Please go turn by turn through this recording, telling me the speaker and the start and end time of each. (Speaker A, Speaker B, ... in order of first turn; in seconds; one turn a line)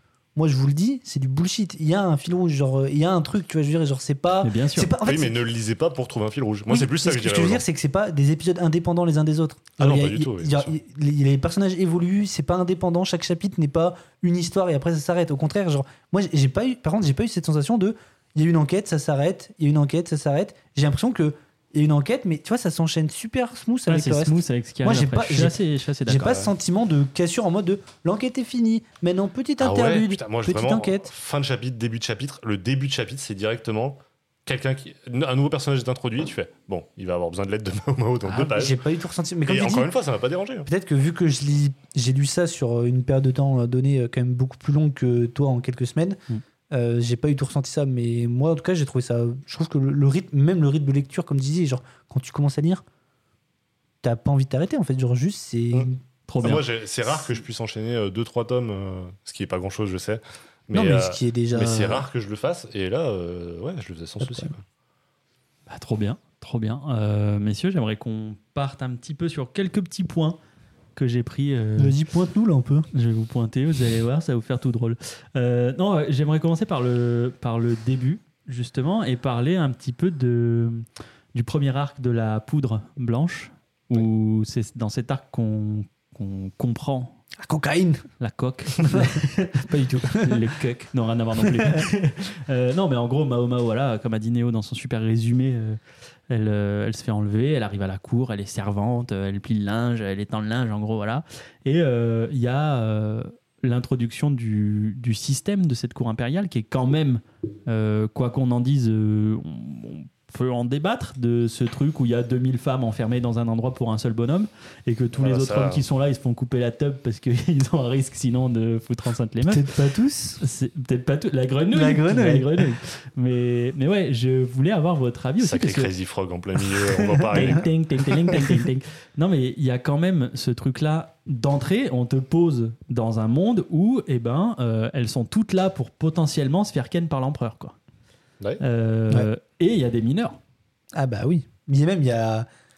Speaker A: 0.3-5.4
Speaker B: 4.4-4.9
Speaker C: 5.0-7.6
Speaker A: 6.7-31.1
Speaker C: 9.8-10.7
Speaker B: 23.9-26.4
Speaker C: 29.6-38.8
Speaker A: 38.3-39.9
Speaker C: 39.5-40.7
Speaker A: 40.6-46.2
Speaker A: 46.7-52.8
Speaker A: 54.0-56.0
Speaker B: 56.3-56.7
Speaker C: 56.4-64.6
Speaker A: 60.7-62.1
Speaker A: 64.2-64.5
Speaker B: 65.7-70.4
Speaker B: 71.0-72.0
Speaker A: 71.8-72.9
Speaker B: 72.9-87.2
Speaker A: 87.4-88.0
Speaker B: 88.2-95.8
Speaker A: 88.8-90.5
Speaker A: 91.4-91.9
Speaker B: 96.3-119.7
Speaker C: 115.2-115.8
Speaker A: 119.5-120.4
Speaker B: 120.4-125.9
Speaker A: 121.7-122.6
Speaker C: 125.4-127.8
Speaker A: 126.8-127.7
Speaker B: 127.3-137.8
Speaker B: 138.6-140.4
Speaker A: 140.9-142.5